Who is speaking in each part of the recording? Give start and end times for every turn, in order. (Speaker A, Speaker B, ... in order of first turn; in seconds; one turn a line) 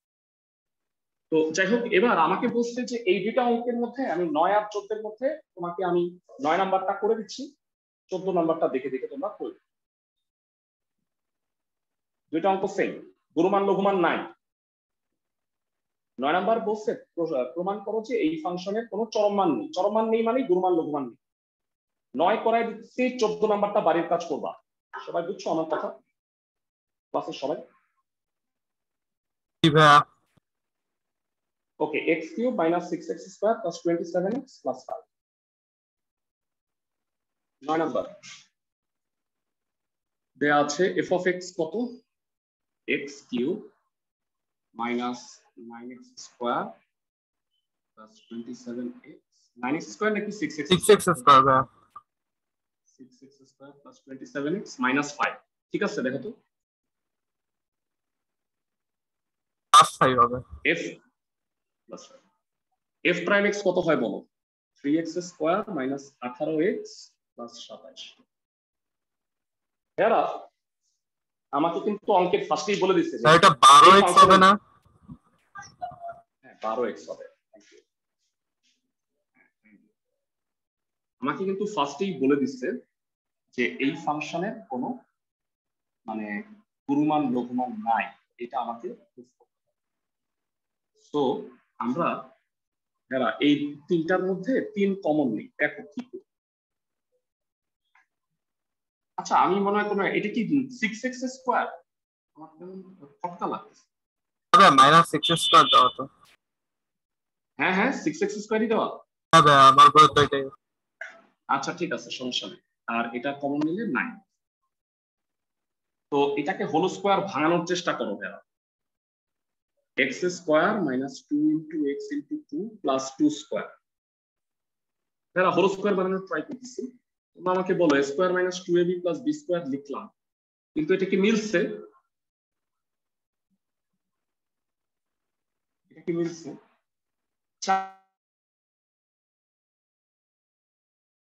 Speaker A: 1.3-7.5
Speaker A: 8.1-9.6
Speaker A: 12.3-14.3
Speaker A: 16.2-21.2
Speaker A: 22.2-25.9
Speaker A: 27.1-27.6
Speaker B: 29.6-30.1
Speaker A: 31.8-35.0
Speaker A: 37.6-38.1
Speaker A: 40.4-42.0
Speaker A: 42.9-43.7
Speaker A: 44.8-46.8
Speaker A: 48.0-51.1
Speaker B: 50.7-51.7
Speaker A: 52.9-56.4
Speaker B: 59.7-60.5
Speaker A: 60.6-61.0
Speaker A: 61.9-62.2
Speaker A: 63.0-64.3
Speaker A: 64.8-68.2
Speaker A: 70.0-70.5
Speaker A: 71.5-74.5
Speaker B: 73.2-74.6
Speaker A: 76.4-77.8
Speaker A: 81.2-82.8
Speaker A: 83.5-85.0
Speaker A: 86.1-89.5
Speaker A: 91.0-92.3
Speaker A: 93.1-96.2
Speaker A: 99.2-101.8
Speaker A: 102.4-103.8
Speaker B: 104.5-106.1
Speaker A: 107.6-109.0
Speaker B: 109.3-110.5
Speaker A: 111.5-114.2
Speaker A: 116.1-118.4
Speaker A: 120.0-123.7
Speaker A: 125.3-130.1
Speaker A: 130.8-131.8
Speaker A: 135.9-136.6
Speaker A: 137.6-138.0